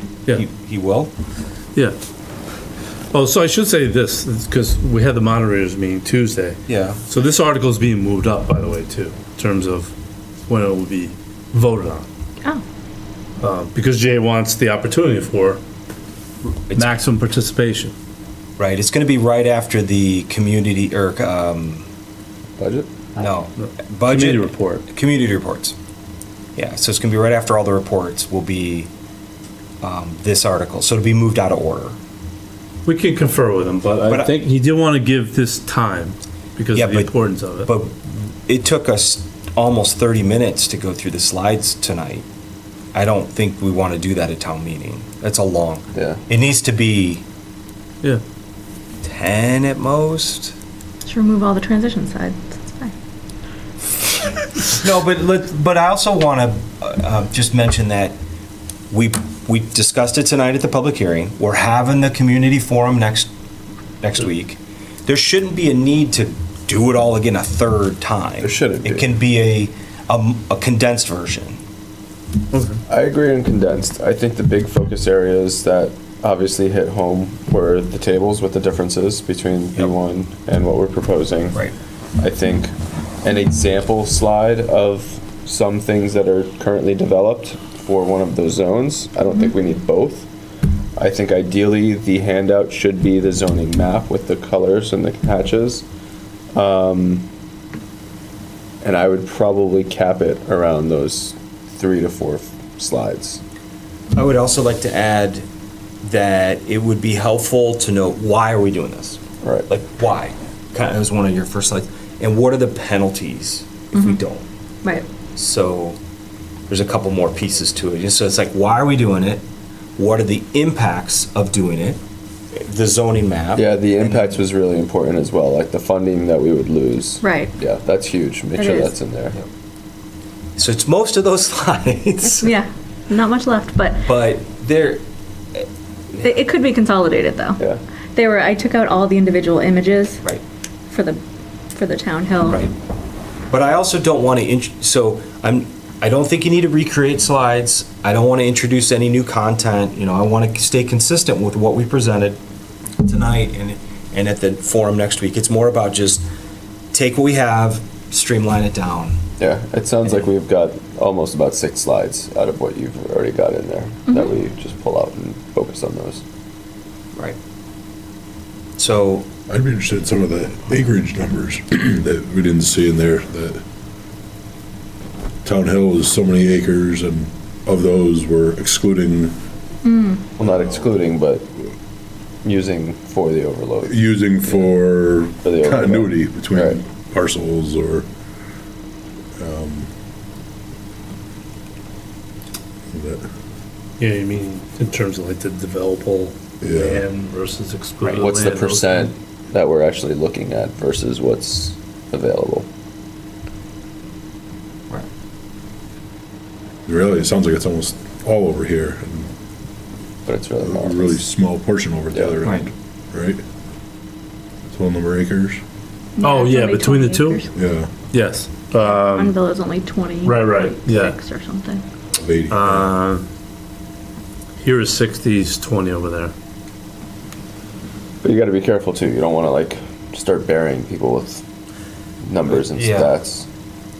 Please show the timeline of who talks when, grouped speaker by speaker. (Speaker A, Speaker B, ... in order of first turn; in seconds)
Speaker A: 0.3-1.1, 6.7-7.0, 16.4-17.0, 18.6-21.9, 23.1-25.7, 26.6-28.9, 29.8-32.0, 34.0-34.3, 36.7-37.1, 37.6-42.2, 42.9-47.2, 49.0-50.5, 54.7-58.2, 58.9-63.3, 64.0-71.6, 104.1-105.4, 106.0-114.4, 115.2-116.0, 116.7-119.4, 120.0-122.0, 122.5-124.4, 130.6-132.5, 134.0-135.0, 142.4-142.7, 143.5-152.4, 153.0-156.2, 156.9-159.2, 168.8-169.3, 212.4-212.7, 232.6-233.1
Speaker B: 3.1-9.9, 10.5-12.1, 13.4-15.6, 16.7-17.9, 23.6-24.8, 32.9-37.7, 72.5-72.8, 194.0-199.1, 216.2-217.4, 218.1-219.3, 220.2-221.2, 222.5-223.3, 224.6-226.3
Speaker C: 22.6-22.9, 45.9-46.2, 68.4-69.1, 72.9-81.6, 82.2-90.3, 91.0-95.8, 96.5-97.3, 98.8-103.4, 123.5-129.3, 159.4-166.2, 180.4-181.5, 182.4-184.7, 185.4-186.8, 198.1-202.7, 210.2-211.2, 228.2-231.4, 232.2-233.5
Speaker D: 51.0-52.9, 127.2-127.5, 128.6-128.9, 132.4-134.0, 136.2-137.6, 138.2-140.2, 140.9-141.2, 141.7-142.6, 179.8-180.2, 216.2-217.4, 218.8-221.8
Speaker E: 169.5-173.6, 175.4-179.3, 180.4-180.9, 183.9-188.1, 189.4-189.9, 192.9-193.3, 196.6-197.1, 206.8-209.3, 210.6-213.4, 214.7-215.6, 217.5-217.9, 222.1-223.0